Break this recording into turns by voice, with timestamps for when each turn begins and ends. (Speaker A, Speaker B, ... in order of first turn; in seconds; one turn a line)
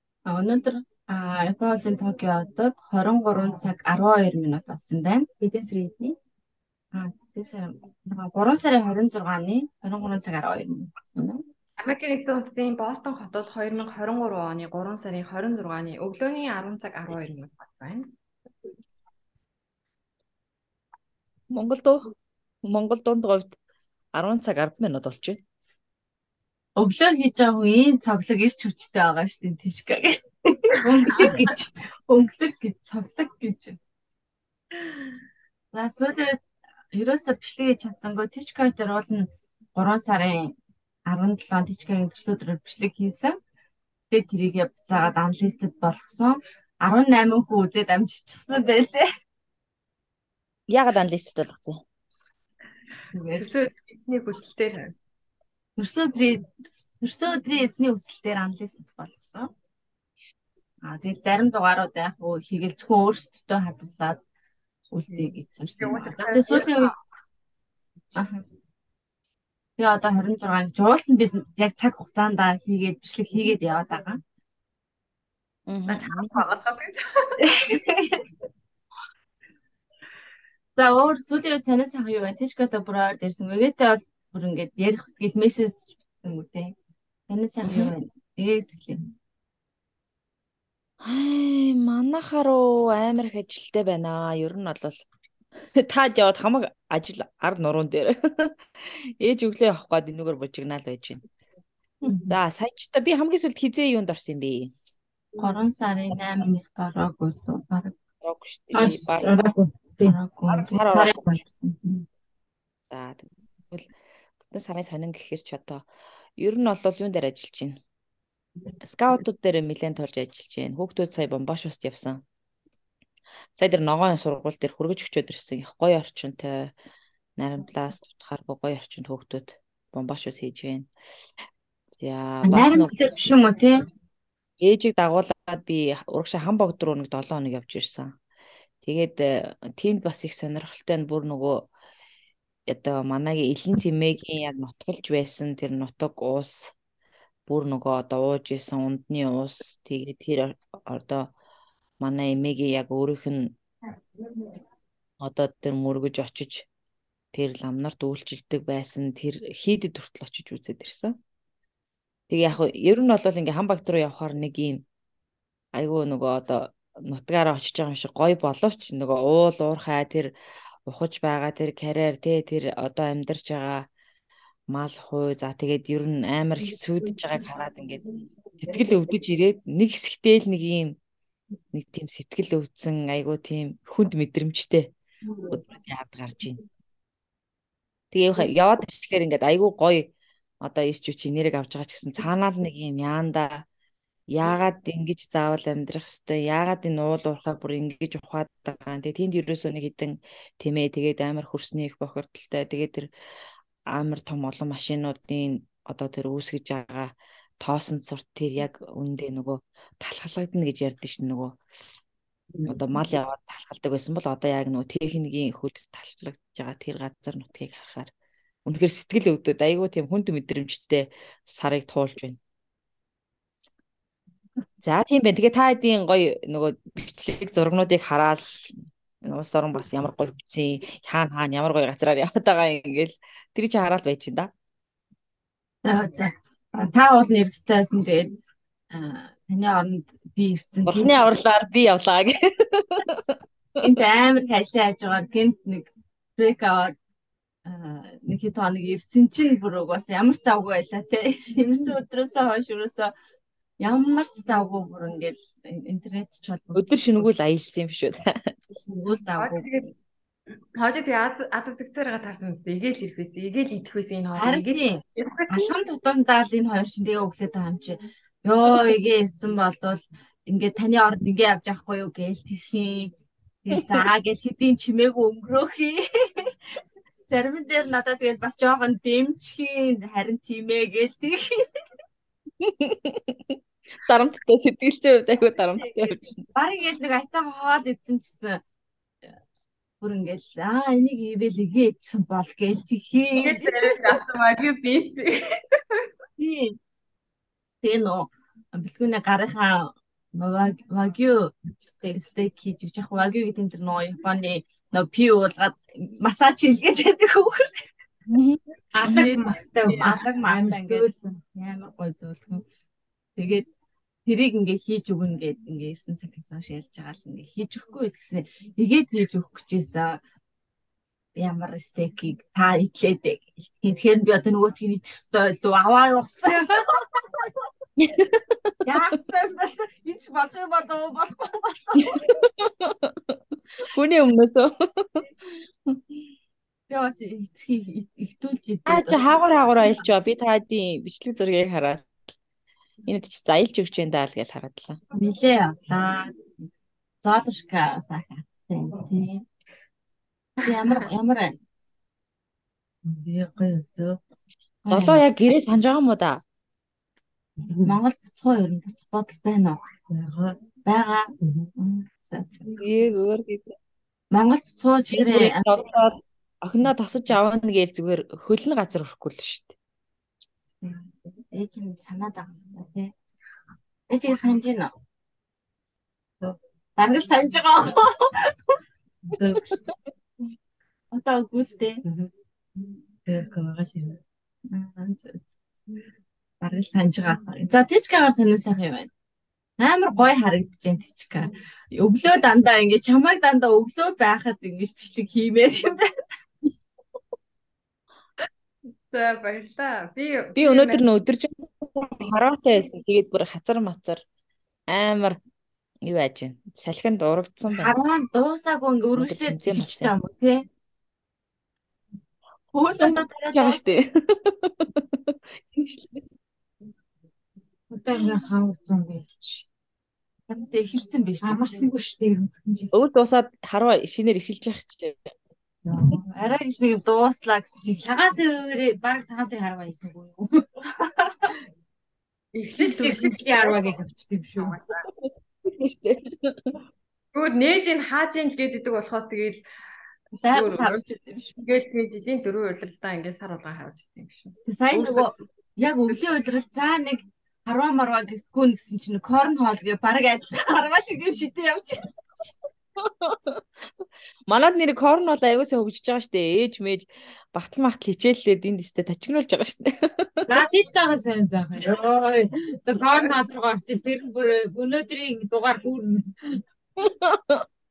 Speaker A: 0.3-5.3
Speaker B: 5.4-6.1
Speaker A: 6.9-11.4
Speaker C: 11.8-18.1
Speaker D: 21.5-22.1
Speaker D: 22.6-23.6
Speaker D: 24.1-25.4
Speaker A: 26.8-31.6
Speaker B: 30.8-31.7
Speaker A: 32.1-33.8
Speaker A: 35.7-36.4
Speaker A: 36.9-40.5
Speaker A: 41.1-43.4
Speaker A: 44.1-49.0
Speaker D: 50.7-51.8
Speaker A: 53.1-53.7
Speaker C: 53.4-54.9
Speaker A: 55.8-59.5
Speaker A: 60.8-64.2
Speaker A: 64.9-66.9
Speaker C: 65.1-67.0
Speaker A: 68.2-68.4
Speaker A: 69.8-74.2
Speaker D: 75.7-76.4
Speaker C: 75.9-77.0
Speaker A: 77.5-78.2
Speaker A: 80.8-86.8
Speaker A: 87.3-89.0
Speaker D: 87.6-87.9
Speaker D: 91.0-95.1
Speaker D: 95.8-101.2
Speaker A: 102.0-102.4
Speaker D: 102.3-104.7
Speaker A: 105.4-108.0
Speaker D: 108.2-109.3
Speaker A: 108.7-109.3
Speaker B: 108.8-110.2
Speaker A: 110.0-112.0
Speaker D: 110.5-111.2
Speaker B: 110.9-111.4
Speaker D: 112.9-113.9
Speaker D: 114.4-115.9
Speaker D: 116.4-117.8
Speaker D: 118.8-122.2
Speaker D: 123.5-126.7
Speaker D: 127.4-130.9
Speaker D: 132.0-133.0
Speaker A: 132.4-133.8
Speaker D: 134.6-138.1
Speaker D: 138.8-141.7
Speaker D: 142.7-146.8
Speaker D: 147.5-151.3
Speaker D: 152.0-153.6
Speaker D: 155.2-156.7
Speaker D: 157.3-161.2
Speaker D: 162.3-164.8
Speaker D: 165.8-170.3
Speaker D: 170.9-173.9
Speaker D: 174.7-178.1
Speaker D: 178.6-181.0
Speaker D: 181.7-184.9
Speaker D: 185.5-186.6
Speaker D: 188.1-193.7
Speaker D: 194.3-203.1
Speaker D: 203.9-211.7
Speaker A: 212.6-212.8
Speaker D: 212.7-218.1
Speaker D: 218.7-222.4
Speaker D: 224.8-234.5
Speaker A: 235.8-238.4
Speaker A: 238.9-241.2
Speaker D: 240.8-243.4
Speaker A: 243.8-246.9
Speaker A: 247.7-253.1
Speaker A: 253.8-257.3
Speaker D: 256.8-258.5
Speaker A: 258.7-259.6
Speaker C: 259.4-259.9
Speaker C: 260.8-265.7
Speaker A: 264.4-276.5
Speaker A: 277.3-281.4
Speaker D: 282.6-286.4
Speaker A: 285.8-288.6
Speaker A: 290.0-294.2
Speaker C: 293.4-295.4
Speaker A: 296.4-296.8
Speaker A: 297.8-301.6
Speaker B: 301.8-302.2
Speaker A: 302.1-307.7
Speaker B: 308.9-311.4
Speaker A: 309.0-312.6
Speaker A: 313.4-313.7
Speaker A: 314.3-320.2
Speaker A: 321.4-326.7
Speaker D: 328.0-328.4
Speaker A: 328.9-332.2
Speaker D: 332.2-333.4
Speaker D: 333.9-335.3
Speaker A: 336.9-339.2
Speaker D: 338.9-342.2
Speaker D: 343.1-345.0
Speaker A: 345.1-346.4
Speaker A: 347.2-349.4
Speaker C: 350.6-351.0
Speaker A: 350.6-351.6
Speaker A: 353.1-354.2
Speaker A: 354.9-355.2
Speaker D: 354.9-356.4
Speaker A: 357.7-362.8
Speaker D: 362.8-363.7
Speaker A: 364.3-365.6
Speaker D: 365.1-369.7
Speaker A: 370.8-373.1
Speaker A: 374.1-374.9
Speaker A: 376.4-378.5
Speaker A: 379.4-379.8
Speaker A: 381.1-382.0
Speaker A: 383.3-384.2
Speaker A: 384.7-385.6
Speaker A: 386.6-389.1
Speaker A: 389.8-396.1
Speaker C: 399.1-401.0
Speaker D: 400.6-404.2
Speaker D: 404.9-405.4
Speaker D: 406.1-407.9
Speaker A: 407.7-410.7
Speaker D: 409.2-410.1
Speaker A: 412.7-413.8
Speaker D: 413.0-415.2
Speaker D: 415.7-416.2
Speaker B: 417.9-419.7
Speaker A: 420.5-421.9
Speaker B: 421.4-422.9
Speaker D: 422.9-425.3
Speaker B: 425.9-426.2
Speaker A: 425.9-428.0
Speaker B: 427.9-430.5
Speaker C: 432.5-433.9
Speaker B: 432.8-434.8
Speaker C: 434.6-435.0
Speaker D: 435.2-436.8
Speaker C: 437.3-439.6
Speaker A: 440.4-441.6
Speaker C: 440.5-440.9
Speaker C: 441.6-444.6
Speaker A: 444.7-452.5
Speaker D: 444.9-445.3
Speaker D: 453.0-453.6
Speaker D: 454.5-460.4
Speaker B: 460.5-466.6
Speaker D: 467.0-467.6